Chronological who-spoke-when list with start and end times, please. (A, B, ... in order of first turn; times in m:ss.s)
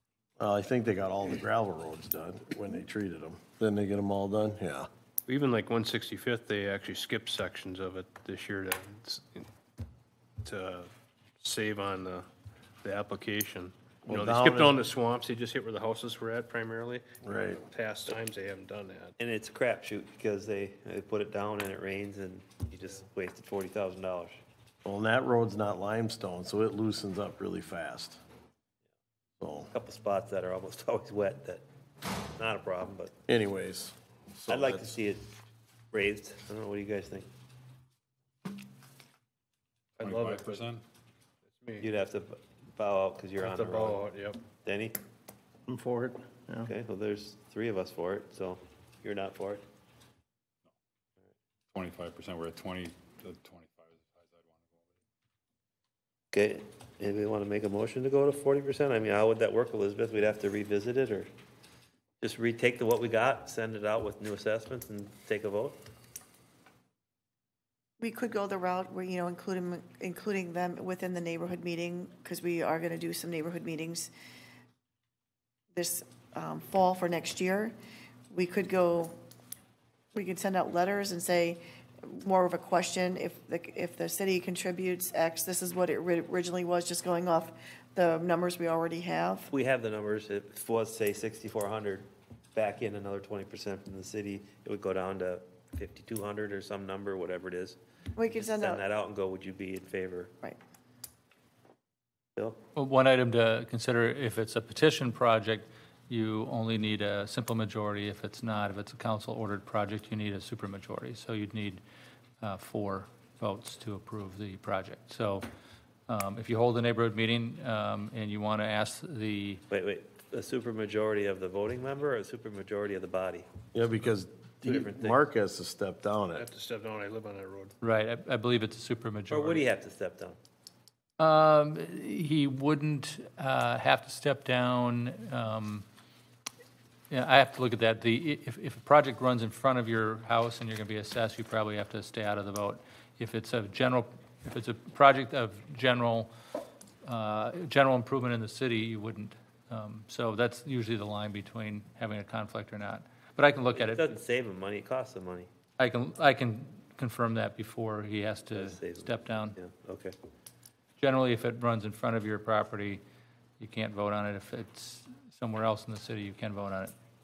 0:00.4-0:04.9 A
0:05.3-0:09.5 B
0:10.4-0:10.9 B
0:11.4-0:12.2 B
0:12.8-0:17.0 B
0:14.0-0:14.8 A
0:17.2-0:17.6 A
0:17.6-0:19.1 B
0:19.2-0:24.4 C
0:24.8-0:28.2 A
0:29.4-0:29.7 A
0:29.7-0:31.6 C
0:32.4-0:33.1 C
0:33.3-0:35.0 A
0:34.5-0:35.3 C
0:35.9-0:37.3 C
0:40.0-0:40.7 B
0:40.0-0:40.8 D
0:41.5-0:41.9 B
0:41.8-0:44.0 C
0:43.4-0:44.4 B
0:44.6-0:45.0 C
0:45.7-0:46.7 A
0:46.6-0:49.6 C
0:51.7-0:55.0 D
0:56.3-1:01.3 C
1:02.2-1:05.8 C
1:08.0-1:14.1 E
1:15.7-1:17.7 E
1:18.3-1:19.1 E
1:20.1-1:29.5 E
1:29.5-1:37.8 C
1:38.2-1:38.8 E
1:38.3-1:40.3 C
1:42.8-1:51.8 F
1:52.4-1:55.5 F
1:56.1-1:59.6 F
1:59.7-2:03.5 C
2:03.7-2:06.4 A
2:04.6-2:05.2 C
2:06.3-2:07.7 B
2:07.8-2:09.6 F
2:09.3-2:10.4 C
2:11.2-2:15.8 F
2:17.1-2:26.3 F
2:27.0-2:34.1 F
2:33.8-2:35.5 C
2:35.8-2:39.6 F
2:38.5-2:40.1 C
2:41.0-2:43.0 F
2:43.6-2:46.9 F